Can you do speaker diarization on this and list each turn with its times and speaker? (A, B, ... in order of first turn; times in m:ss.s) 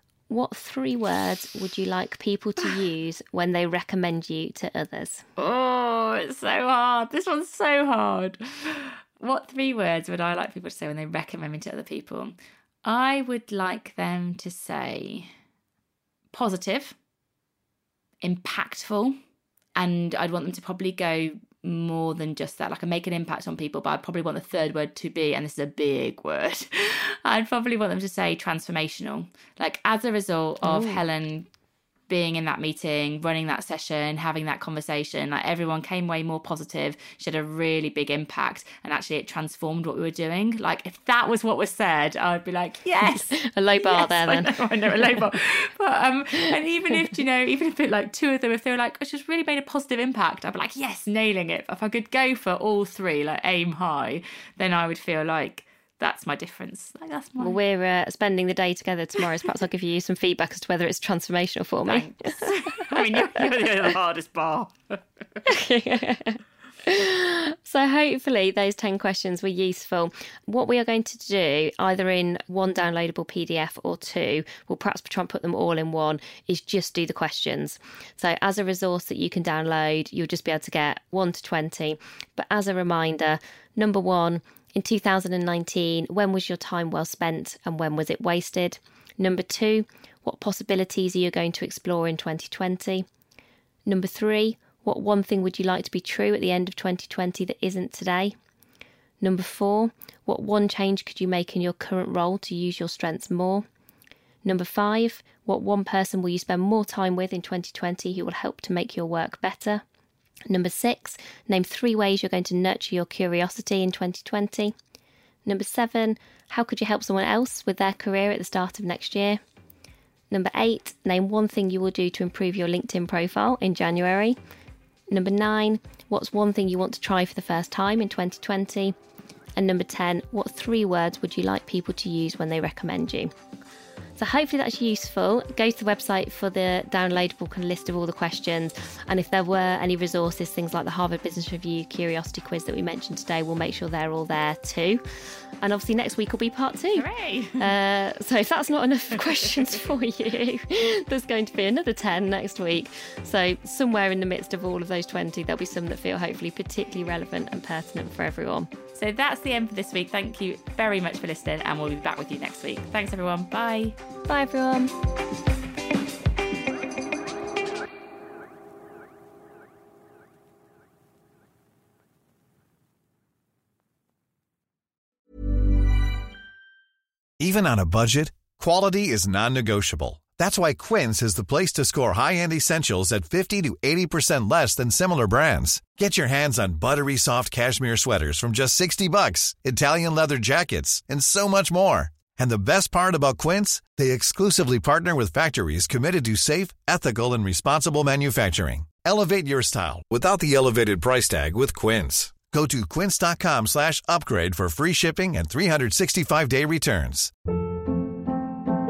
0:00.3-0:05.2 A
0:05.4-0:15.3 B
0:16.3-0:17.0 B
0:18.2-0:19.2 B
0:19.8-0:31.5 B
0:30.6-0:31.0 A
0:32.1-0:57.6 B
0:43.1-0:44.6 A
0:57.4-1:03.0 A
1:01.8-1:05.4 B
1:05.5-1:33.1 A
1:33.9-1:38.3 A
1:39.2-1:43.7 A
1:44.4-1:49.8 A
1:50.5-1:54.7 A
1:55.5-1:59.4 A
2:00.3-2:04.4 A
2:05.1-2:09.0 A
2:09.6-2:13.3 A
2:14.2-2:25.0 A
2:25.6-2:27.1 A
2:26.9-2:27.7 B
2:27.6-2:38.7 A
2:39.0-2:44.0 B
2:44.3-2:45.0 A
2:57.4-3:27.3 C